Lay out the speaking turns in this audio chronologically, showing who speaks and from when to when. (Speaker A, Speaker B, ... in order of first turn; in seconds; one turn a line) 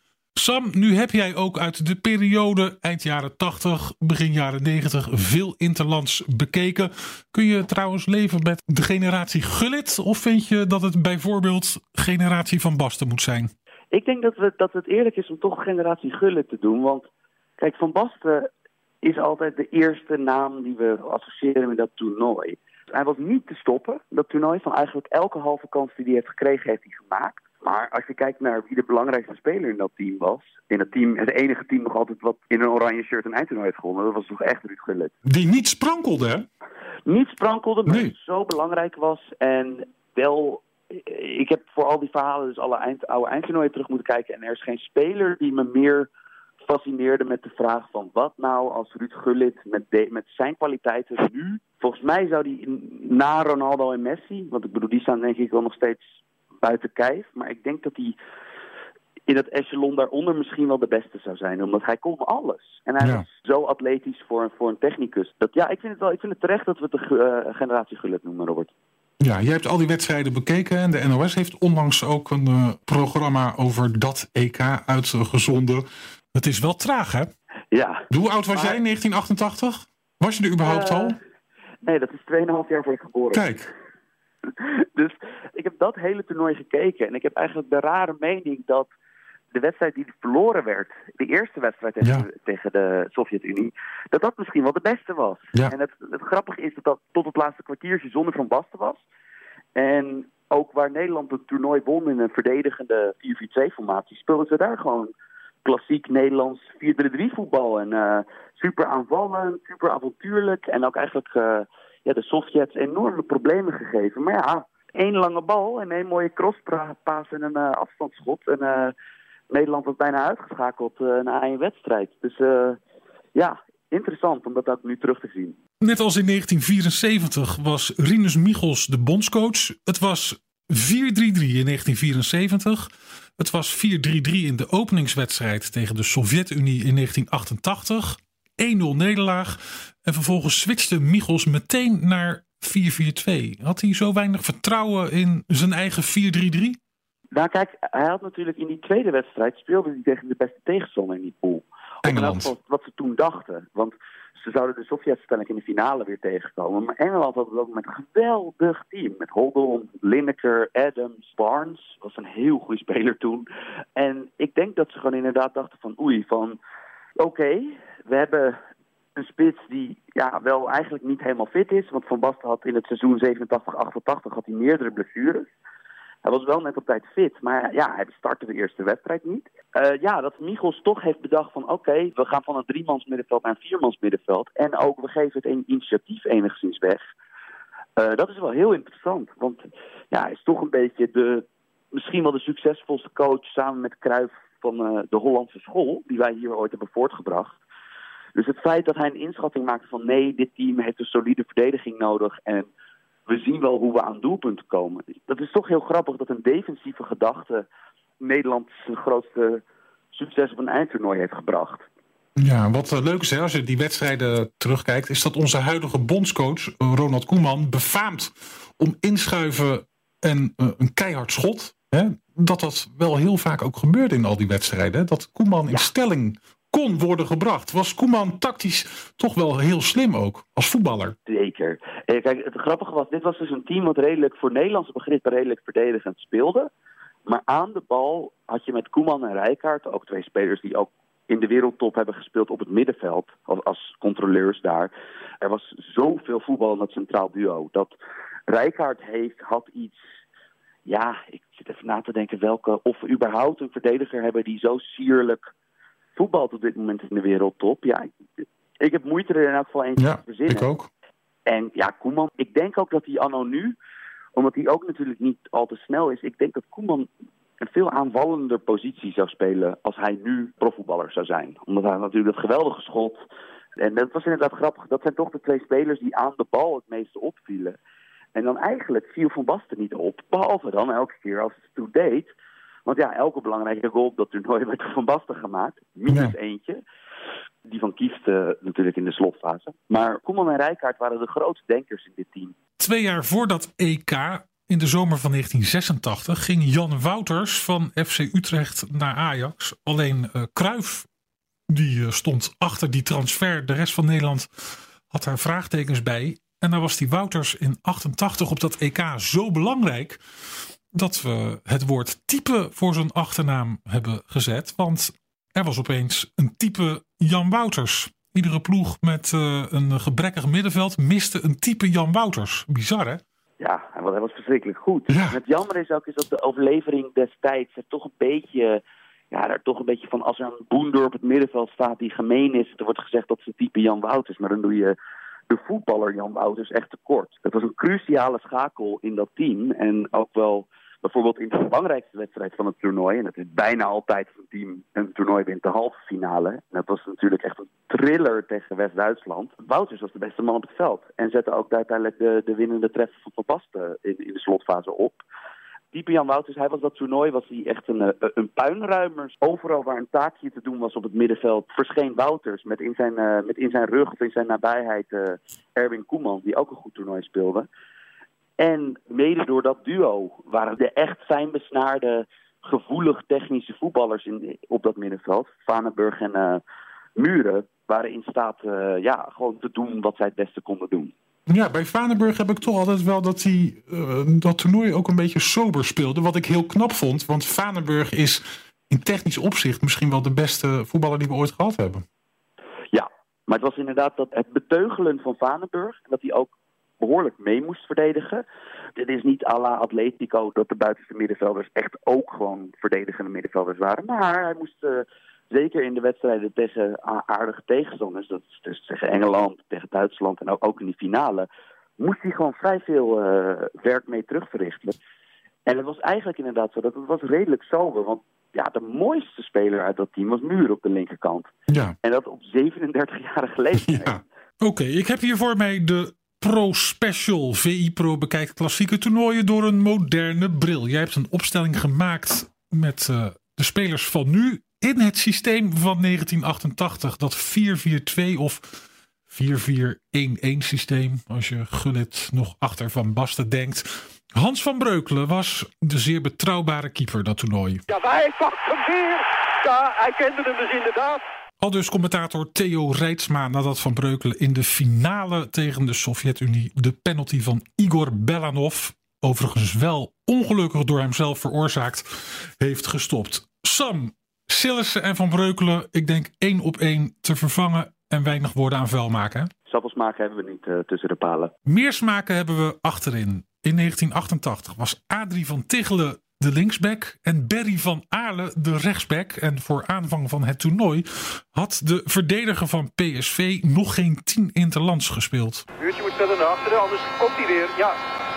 Speaker A: 0.4-13.5
Speaker B: 13.9-17.1
Speaker B: 17.6-18.5
Speaker B: 19.0-35.1
Speaker A: 35.2-36.5
Speaker B: 37.1-46.1
Speaker A: 37.9-38.1
Speaker B: 46.6-56.1
Speaker B: 56.6-58.2
Speaker B: 59.3-68.7
Speaker A: 69.2-77.3
Speaker B: 77.7-78.8
Speaker A: 78.1-81.2
Speaker B: 80.6-81.2
Speaker B: 81.8-83.5
Speaker A: 83.3-83.7
Speaker B: 84.5-88.9
Speaker B: 89.5-99.0
Speaker A: 92.0-92.3
Speaker B: 99.8-105.1
Speaker B: 105.7-118.9
Speaker B: 119.5-122.8
Speaker B: 123.3-125.6
Speaker A: 125.8-146.8
Speaker B: 147.3-166.6
Speaker A: 152.0-152.5
Speaker B: 167.2-168.6
Speaker B: 169.2-175.5
Speaker B: 176.2-187.0
Speaker B: 188.0-197.6
Speaker B: 198.3-202.7
Speaker B: 203.3-207.7
Speaker B: 208.2-211.9
Speaker A: 212.4-231.2
Speaker B: 231.3-236.7
Speaker B: 237.3-247.9
Speaker B: 248.5-250.0
Speaker B: 250.9-255.4
Speaker B: 256.2-258.1
Speaker B: 258.8-260.7
Speaker A: 260.0-260.9
Speaker B: 261.5-263.8
Speaker B: 264.4-267.1
Speaker B: 267.6-273.2
Speaker B: 273.8-277.8
Speaker B: 278.4-282.3
Speaker B: 282.9-286.8
Speaker A: 286.1-286.3
Speaker B: 287.7-292.6
Speaker A: 292.8-301.1
Speaker A: 301.7-310.2
Speaker A: 310.9-323.2
Speaker B: 323.6-335.0
Speaker A: 325.1-325.4
Speaker B: 335.5-355.2
Speaker B: 355.9-367.7
Speaker B: 368.6-376.6
Speaker B: 377.2-381.1
Speaker A: 381.5-392.0
Speaker B: 392.9-398.4
Speaker B: 399.0-411.5
Speaker B: 412.0-415.0
Speaker B: 415.7-421.5
Speaker A: 421.7-422.0
Speaker B: 422.0-424.2
Speaker A: 423.9-447.9
Speaker C: 447.9-451.2
Speaker A: 451.6-469.5
Speaker B: 469.7-471.5
Speaker A: 471.7-485.6
Speaker C: 485.8-488.0